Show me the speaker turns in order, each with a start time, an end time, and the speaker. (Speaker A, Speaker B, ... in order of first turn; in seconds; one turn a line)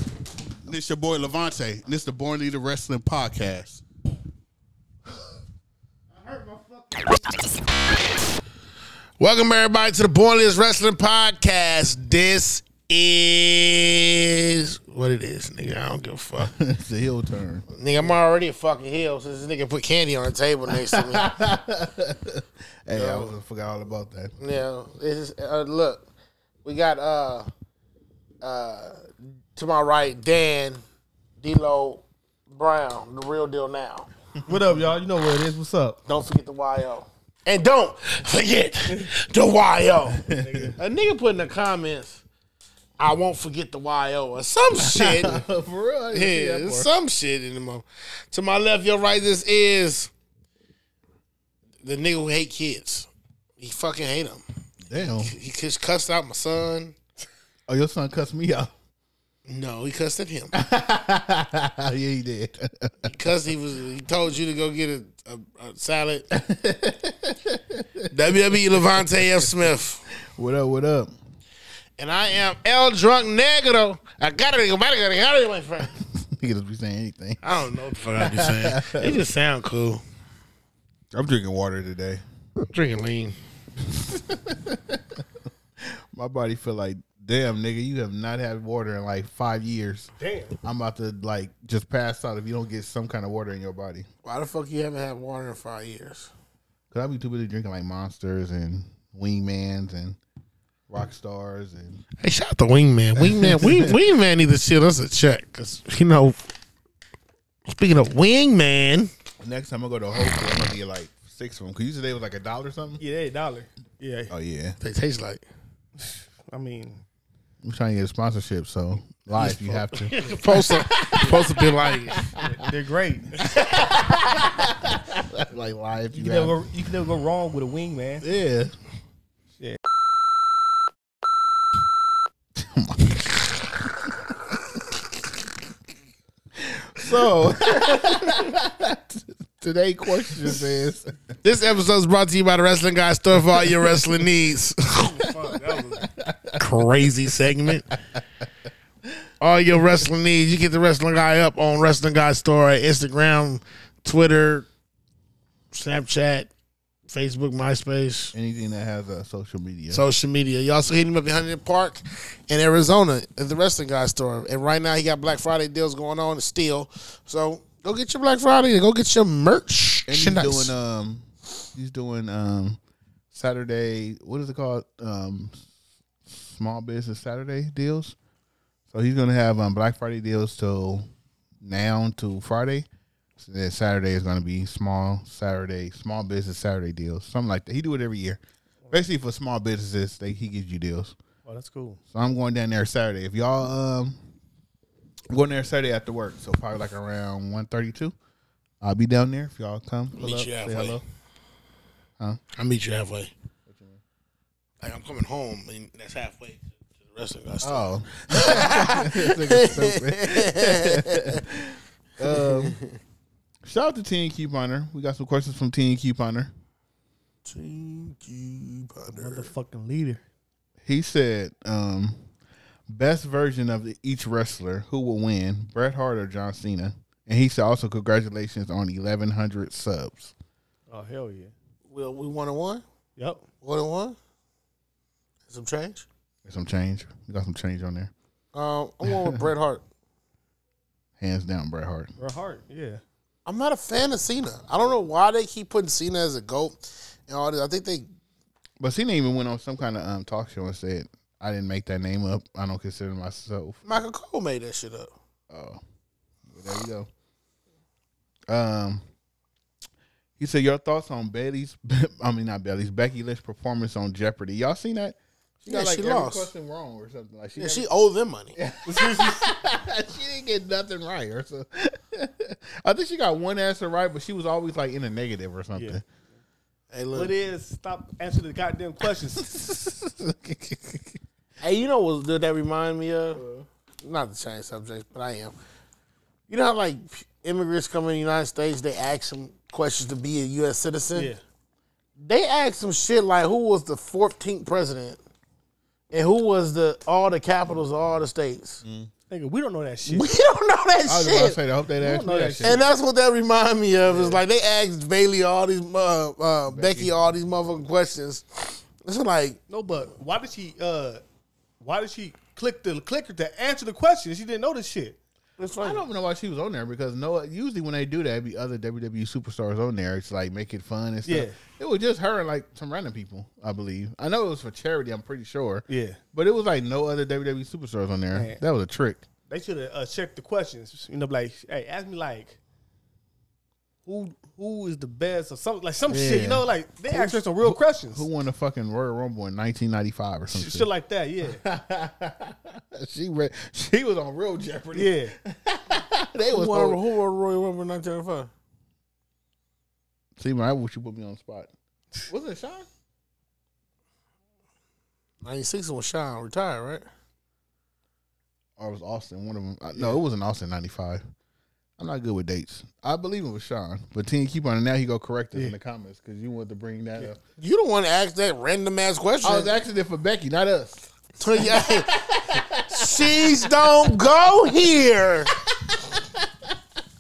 Speaker A: 0.6-3.8
Speaker B: 9.2-16.5
Speaker A: 16.4-17.7
Speaker B: 17.7-21.3
Speaker A: 20.7-24.3
Speaker B: 22.9-23.3
Speaker B: 24.4-26.1
Speaker B: 26.6-27.5
Speaker B: 28.4-30.8
Speaker B: 31.4-34.1
Speaker C: 34.5-36.0
Speaker B: 36.1-42.2
Speaker A: 40.1-40.7
Speaker C: 40.3-40.8
Speaker B: 43.0-45.5
Speaker A: 44.8-46.9
Speaker B: 46.1-50.1
Speaker B: 51.8-57.0
Speaker A: 54.9-55.4
Speaker A: 57.7-58.7
Speaker B: 59.5-60.5
Speaker A: 60.5-63.1
Speaker B: 63.0-66.3
Speaker A: 66.3-69.5
Speaker B: 68.1-70.0
Speaker A: 70.2-71.1
Speaker B: 72.0-75.9
Speaker A: 76.0-77.4
Speaker B: 77.4-80.0
Speaker A: 78.2-79.2
Speaker A: 81.1-82.2
Speaker B: 82.6-83.3
Speaker A: 83.9-85.2
Speaker A: 85.8-90.1
Speaker C: 90.2-90.6
Speaker A: 90.6-94.1
Speaker B: 94.2-96.3
Speaker A: 96.9-100.2
Speaker A: 100.9-102.0
Speaker B: 102.2-106.4
Speaker A: 103.2-104.0
Speaker B: 107.7-109.1
Speaker A: 109.4-113.0
Speaker C: 113.0-114.3
Speaker A: 114.3-114.8
Speaker B: 114.8-115.4
Speaker C: 116.0-117.0
Speaker A: 117.6-122.6
Speaker B: 119.4-122.3
Speaker C: 122.4-123.5
Speaker A: 123.5-126.6
Speaker C: 126.1-128.2
Speaker A: 128.2-128.8
Speaker A: 132.6-134.2
Speaker A: 136.6-141.3
Speaker B: 141.4-146.1
Speaker A: 145.2-146.9
Speaker B: 146.6-147.9
Speaker A: 147.7-148.2
Speaker B: 149.4-154.7
Speaker B: 155.7-156.5
Speaker B: 157.1-158.3
Speaker A: 158.3-160.0
Speaker B: 159.9-170.7
Speaker A: 170.1-172.8
Speaker A: 173.3-175.7
Speaker A: 176.2-178.2
Speaker A: 178.9-181.1
Speaker A: 181.6-182.9
Speaker A: 183.4-188.4
Speaker A: 188.9-191.2
Speaker C: 191.5-192.0
Speaker A: 192.1-194.2
Speaker A: 195.3-198.2
Speaker A: 198.8-201.0
Speaker B: 200.2-201.0
Speaker B: 202.5-203.3
Speaker A: 203.7-204.0
Speaker B: 204.8-211.4
Speaker A: 207.6-212.8
Speaker B: 212.2-213.0
Speaker A: 213.6-216.5
Speaker B: 217.4-219.5
Speaker C: 219.1-220.2
Speaker A: 220.8-222.2
Speaker A: 222.9-230.3
Speaker C: 230.9-231.5
Speaker B: 231.9-232.8
Speaker C: 233.2-233.4
Speaker B: 233.6-234.2
Speaker B: 235.5-236.1
Speaker A: 236.4-238.1
Speaker B: 238.5-239.8
Speaker A: 239.1-239.4
Speaker A: 241.2-242.1
Speaker C: 242.2-243.0
Speaker B: 243.5-248.1
Speaker A: 248.8-253.8
Speaker B: 253.9-255.1
Speaker A: 255.5-255.8
Speaker A: 256.5-257.1
Speaker A: 258.5-259.1
Speaker A: 260.4-267.9
Speaker B: 265.7-266.5
Speaker B: 267.6-268.6
Speaker A: 268.6-276.0
Speaker C: 268.9-269.5
Speaker C: 275.8-276.0
Speaker B: 276.9-277.3
Speaker C: 277.1-279.5
Speaker A: 279.4-281.2
Speaker B: 281.6-283.4
Speaker B: 284.0-285.6
Speaker B: 286.5-291.3
Speaker C: 291.1-291.4
Speaker B: 292.2-295.2
Speaker B: 296.1-298.8
Speaker A: 298.8-299.1
Speaker C: 299.3-300.3
Speaker B: 300.1-301.6
Speaker A: 301.1-302.8
Speaker C: 302.0-302.8
Speaker B: 302.6-309.6
Speaker C: 304.1-304.4
Speaker A: 306.7-307.1
Speaker C: 309.7-311.2
Speaker C: 311.8-315.2
Speaker B: 315.6-316.0
Speaker A: 315.8-329.3
Speaker C: 321.3-321.6
Speaker C: 325.9-326.2
Speaker C: 328.3-328.6
Speaker C: 329.5-332.6
Speaker C: 334.1-338.3
Speaker A: 336.1-340.9
Speaker C: 340.5-341.6
Speaker A: 341.4-347.0
Speaker C: 344.9-345.4
Speaker B: 346.4-348.5
Speaker A: 350.4-351.7
Speaker A: 352.3-352.9
Speaker B: 355.4-357.1
Speaker A: 358.8-361.2
Speaker A: 362.0-367.4
Speaker B: 367.6-369.7
Speaker A: 369.4-374.1
Speaker B: 371.4-372.2
Speaker B: 372.9-375.5
Speaker A: 375.7-376.7